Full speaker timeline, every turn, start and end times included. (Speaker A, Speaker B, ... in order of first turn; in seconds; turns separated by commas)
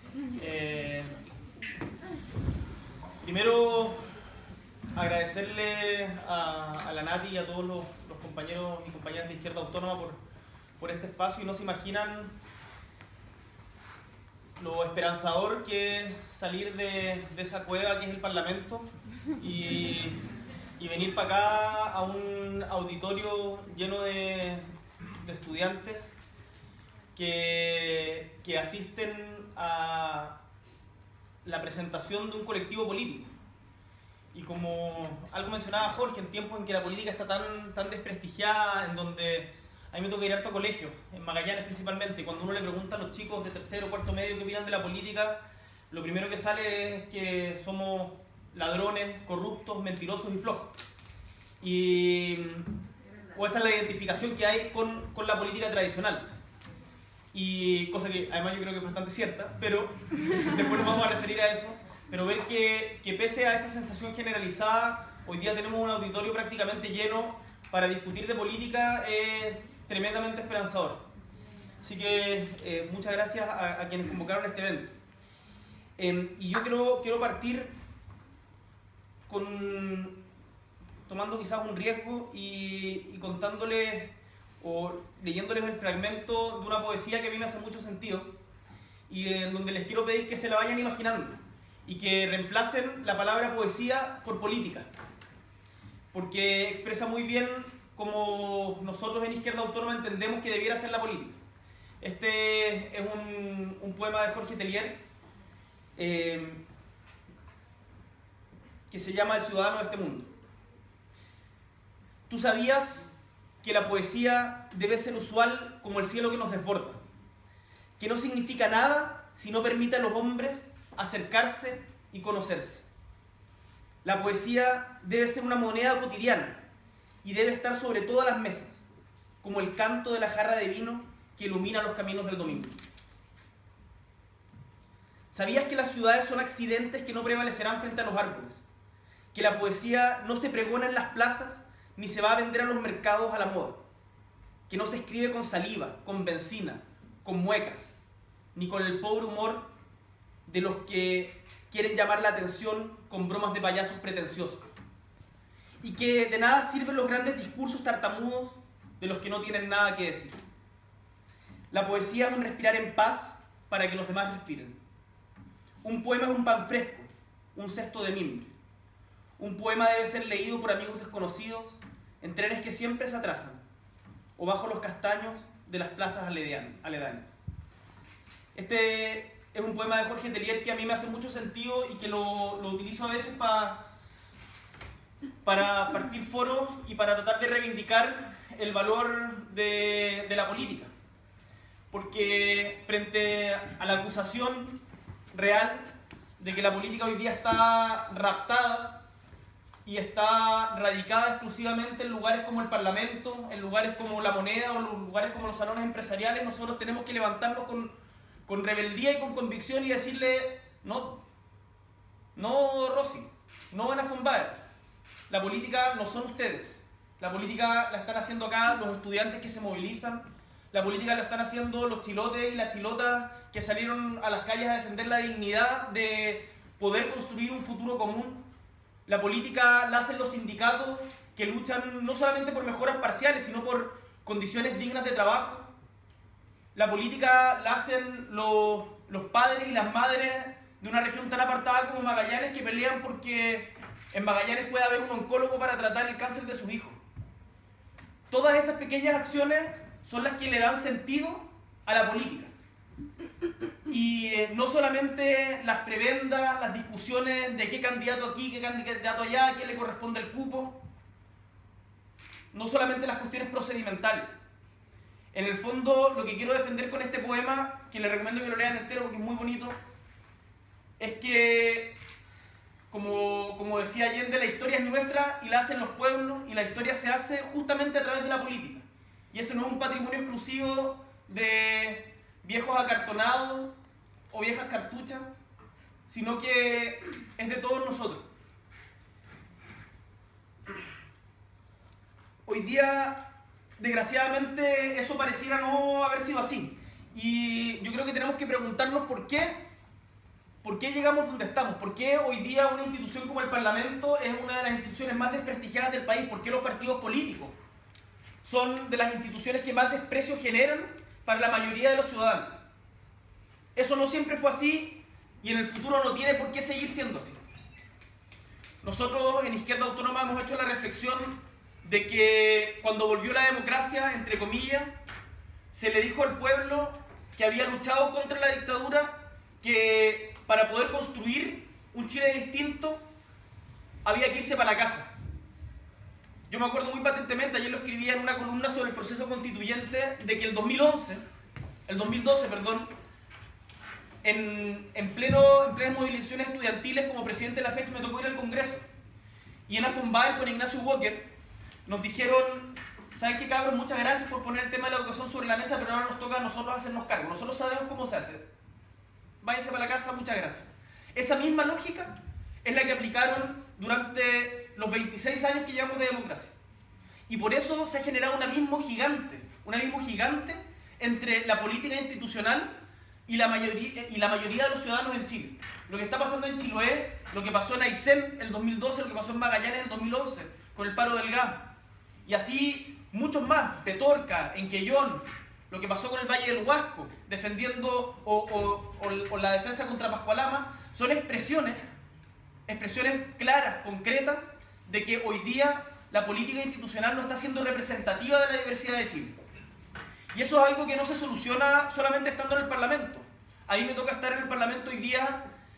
Speaker A: 0.3-1.2, Speaker A: 3.2-4.0, Speaker A: 4.9-10.2, Speaker A: 10.8-12.3, Speaker A: 14.6-20.2, Speaker A: 20.8-24.6, Speaker A: 25.2-26.0, Speaker A: 27.2-30.4, Speaker A: 31.4-33.3, Speaker A: 34.3-45.4, Speaker A: 45.9-50.8, Speaker A: 51.6-52.8, Speaker A: 53.3-56.3, Speaker A: 57.3-71.0, Speaker A: 71.8-75.0, Speaker A: 76.0-77.7, Speaker A: 79.3-80.2, Speaker A: 81.1-88.3, Speaker A: 89.1-94.9, Speaker A: 96.1-101.4, Speaker A: 102.0-105.0, Speaker A: 106.0-106.6, Speaker A: 108.9-110.3, Speaker A: 112.3-113.1, Speaker A: 113.6-117.0, Speaker A: 118.0-122.8, Speaker A: 124.0-126.6, Speaker A: 127.2-128.8, Speaker A: 129.4-132.8, Speaker A: 135.3-138.6, Speaker A: 139.3-143.8, Speaker A: 144.7-147.9, Speaker A: 148.6-149.7, Speaker A: 150.5-154.6, Speaker A: 155.8-160.4, Speaker A: 161.7-164.8, Speaker A: 165.8-168.5, Speaker A: 169.4-173.6, Speaker A: 174.4-177.4, Speaker A: 178.6-183.8, Speaker A: 185.4-190.9, Speaker A: 191.9-194.8, Speaker A: 195.3-195.9, Speaker A: 196.4-199.0, Speaker A: 199.8-207.9, Speaker A: 208.5-211.2, Speaker A: 212.3-214.6, Speaker A: 215.3-228.4, Speaker A: 229.1-235.7, Speaker A: 236.8-247.0, Speaker A: 248.3-252.5, Speaker A: 253.9-260.8, Speaker A: 262.5-264.3, Speaker A: 265.3-269.8, Speaker A: 271.0-272.0, Speaker A: 272.9-283.7, Speaker A: 284.3-285.3, Speaker A: 286.1-288.2, Speaker A: 292.5-299.6, Speaker A: 300.6-307.6, Speaker A: 308.4-312.6, Speaker A: 313.8-317.4, Speaker A: 318.8-324.9, Speaker A: 325.7-333.0, Speaker A: 334.1-335.1, Speaker A: 336.5-341.2, Speaker A: 341.9-342.9, Speaker A: 344.2-348.8, Speaker A: 349.7-351.3, Speaker A: 351.9-358.4, Speaker A: 359.4-366.5, Speaker A: 367.3-381.7, Speaker A: 382.3-391.8, Speaker A: 392.7-399.4, Speaker A: 400.3-405.4